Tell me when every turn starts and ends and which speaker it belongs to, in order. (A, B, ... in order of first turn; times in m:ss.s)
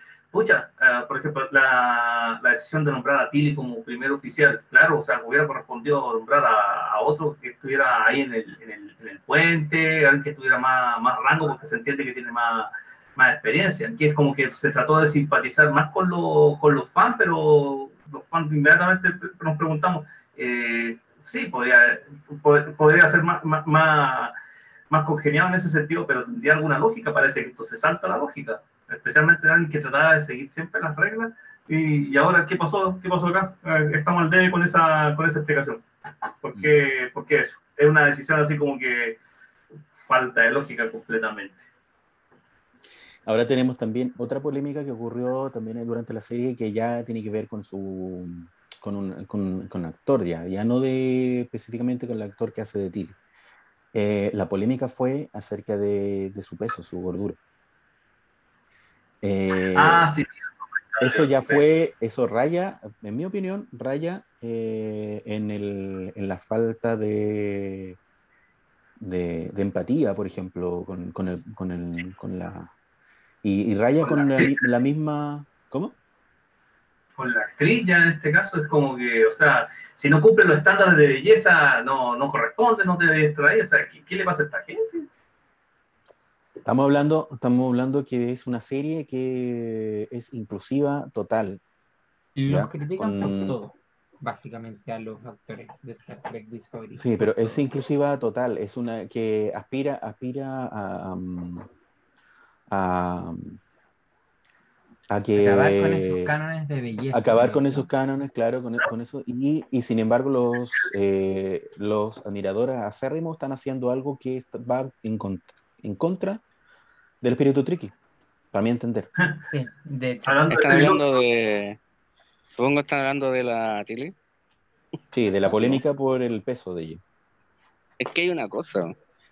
0:00.3-0:24.3 A
0:24.9-0:35.8 A
0:36.4-0:39.2 A
0:40.0-0:41.6 A
0:43.2-0:53.2 B
0:53.9-0:57.4 B
0:59.2-1:00.1 B
0:59.7-1:00.3 A
1:00.9-1:01.6 A
1:01.0-1:08.0 B
1:09.0-1:12.7 B
1:13.4-1:16.0 B
1:14.0-1:14.7 A
1:17.2-1:25.1 A
1:26.6-1:31.6 B
1:32.4-1:37.6 C
1:32.5-1:33.6 B
1:36.9-1:41.7 B
1:42.7-1:43.6 B
1:45.1-1:46.3 B
1:45.4-1:47.9 C
1:47.1-1:56.4 B
1:57.2-1:57.9 B
1:58.5-1:59.1 B
1:59.4-2:00.4 C
2:00.2-2:01.0 A
2:00.5-2:01.8 D
2:02.5-2:04.1 D
2:05.1-2:07.0 B
2:05.4-2:05.8 D
2:08.0-2:09.0 D